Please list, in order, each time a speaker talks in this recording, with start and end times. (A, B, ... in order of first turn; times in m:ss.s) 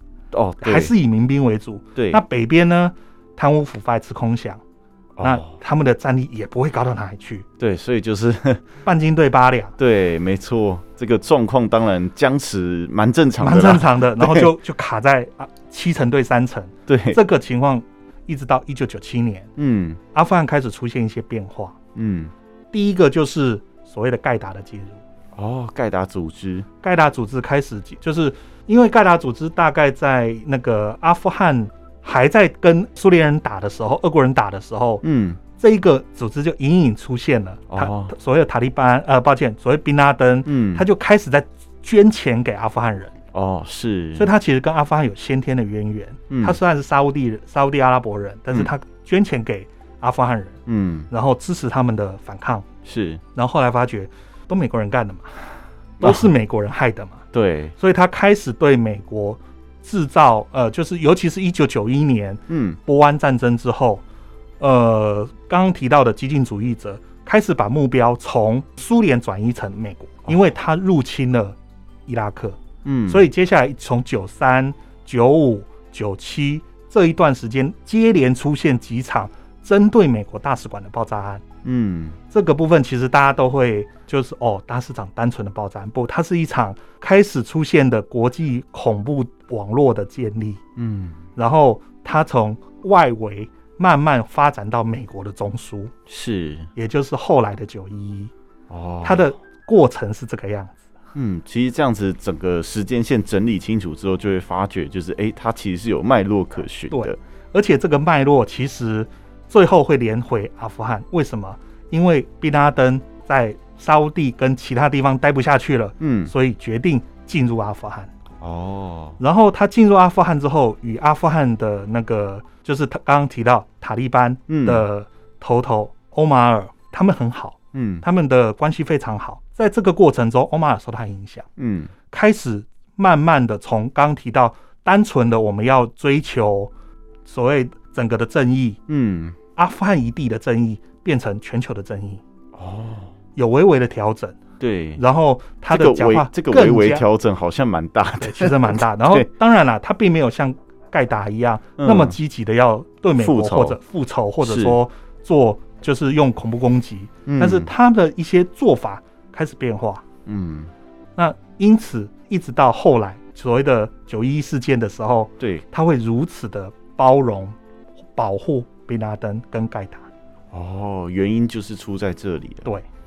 0:00.3-0:00.9 A
0:00.6-0:04.6 B
0:05.2-0:05.5 A
0:05.2-0:07.5 B
0:07.6-0:08.6 A
0:08.8-0:09.8 B
0:09.8-0:14.5 A
0:13.4-0:19.5 B
0:16.9-0:17.2 A
0:19.6-0:20.0 A
0:20.1-0:21.8 B
0:21.9-0:22.3 A
0:22.7-0:25.0 B
0:25.3-0:26.7 A
0:26.8-0:35.0 B
0:35.0-0:35.4 A
0:35.5-0:43.1 B
0:37.7-0:38.1 A
0:40.4-0:40.8 A
0:43.3-0:44.3 A
0:44.2-0:50.6 B
0:46.3-0:46.6 A
0:50.7-0:51.1 A
0:51.1-0:52.6 B
0:52.8-0:53.2 A
0:53.3-0:57.2 B
0:56.0-0:56.3 A
0:57.3-0:57.7 A
0:57.8-1:04.0 B
1:02.5-1:02.8 A
1:04.6-1:21.4 B
1:12.8-1:13.2 A
1:21.6-1:22.2 A
1:22.3-1:30.6 B
1:30.8-1:31.2 A
1:31.4-1:35.9 B
1:36.1-1:36.7 A
1:36.7-1:38.3 B
1:38.7-1:39.3 A
1:39.0-1:40.8 B
1:41.1-1:47.2 A
1:46.9-1:58.1 B
1:56.0-1:56.3 A
1:58.4-1:59.2 A
1:59.2-2:11.5 B
2:04.5-2:04.8 A
2:07.7-2:08.0 A
2:11.6-2:11.9 A
2:12.1-2:16.7 B
2:17.2-2:18.8 B
2:18.9-2:19.4 A
2:19.6-2:22.2 B
2:22.5-2:23.1 A
2:23.3-2:24.4 B
2:24.6-2:25.0 A
2:25.0-2:27.0 B
2:25.7-2:29.3 A
2:28.2-2:40.0 B
2:31.8-2:32.2 A
2:33.2-2:33.8 A
2:34.4-2:34.8 A
2:37.3-2:37.7 A
2:40.2-2:40.7 A
2:41.2-2:47.6 B
2:45.4-2:45.6 A
2:48.1-2:50.1 B
2:50.5-2:52.6 A